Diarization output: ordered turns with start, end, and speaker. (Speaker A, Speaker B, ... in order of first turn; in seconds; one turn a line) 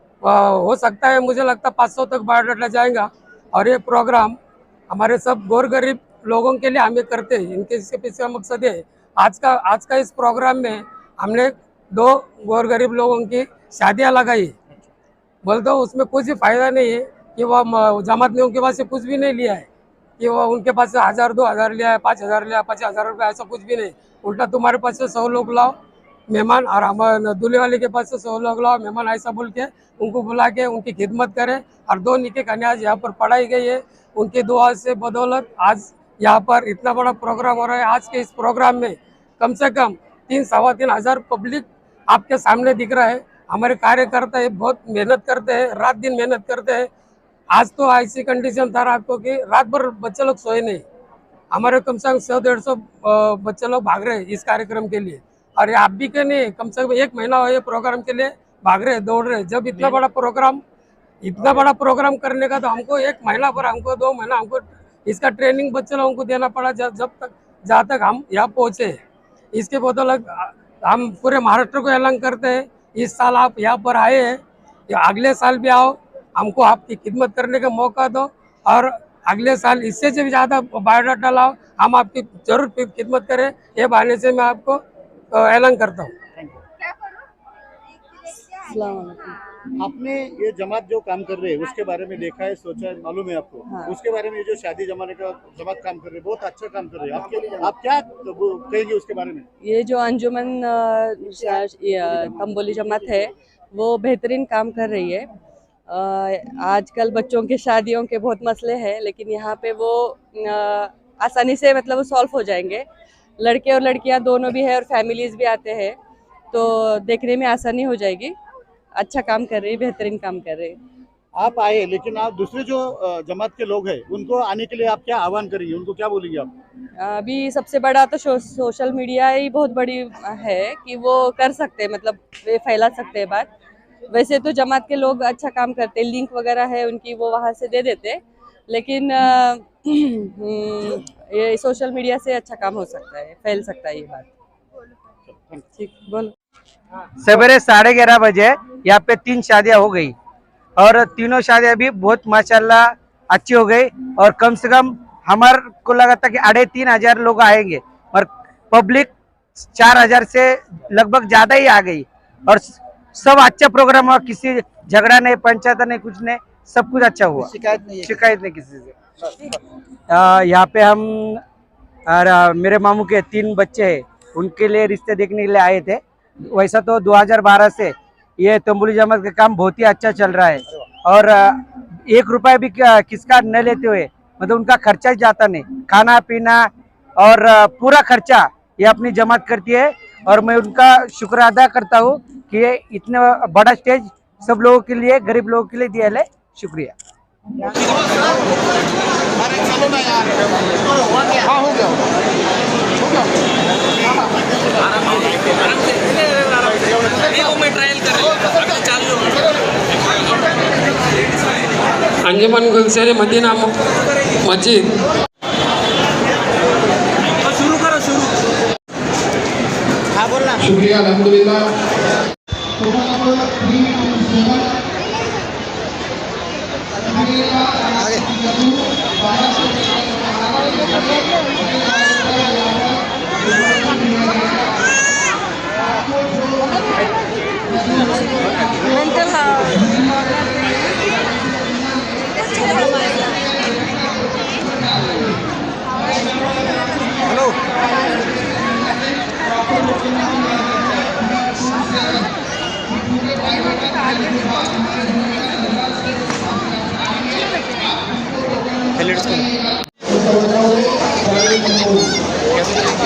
Speaker A: 0.2-4.3
Speaker A: 4.9-14.5
Speaker A: 15.4-19.6
Speaker A: 20.2-25.7
Speaker A: 26.3-46.9
Speaker A: 47.5-50.8
Speaker A: 51.5-60.6
Speaker A: 61.2-69.0
Speaker A: 69.5-84.8
Speaker A: 85.3-86.1
Speaker B: 86.3-86.6
Speaker C: 88.5-89.3
Speaker B: 89.8-99.4
Speaker C: 93.7-94.0
Speaker C: 99.6-105.3
Speaker C: 105.9-112.8
Speaker C: 113.4-116.0
Speaker C: 116.5-118.3
Speaker C: 119.0-120.8
Speaker B: 121.3-126.5
Speaker C: 127.0-133.5
Speaker C: 134.1-144.3
Speaker B: 145.3-145.6
Speaker C: 145.8-146.3
Speaker D: 147.2-150.1
Speaker D: 150.8-159.1
Speaker D: 159.6-169.0
Speaker D: 170.1-171.4
Speaker D: 172.1-196.9
Speaker A: 212.2-213.8
Speaker A: 214.4-214.9
Speaker E: 220.7-221.3
Speaker E: 222.8-224.6
Speaker E: 227.1-230.6
Speaker E: 231.7-232.9
Speaker E: 233.5-234.5
Speaker E: 236.0-236.6
Speaker E: 237.7-239.2
Speaker E: 239.8-240.1
Speaker E: 249.6-250.6
Speaker E: 251.5-252.1
Speaker E: 253.2-253.5
Speaker E: 254.5-254.8
Speaker E: 259.1-259.5
Speaker E: 260.2-262.1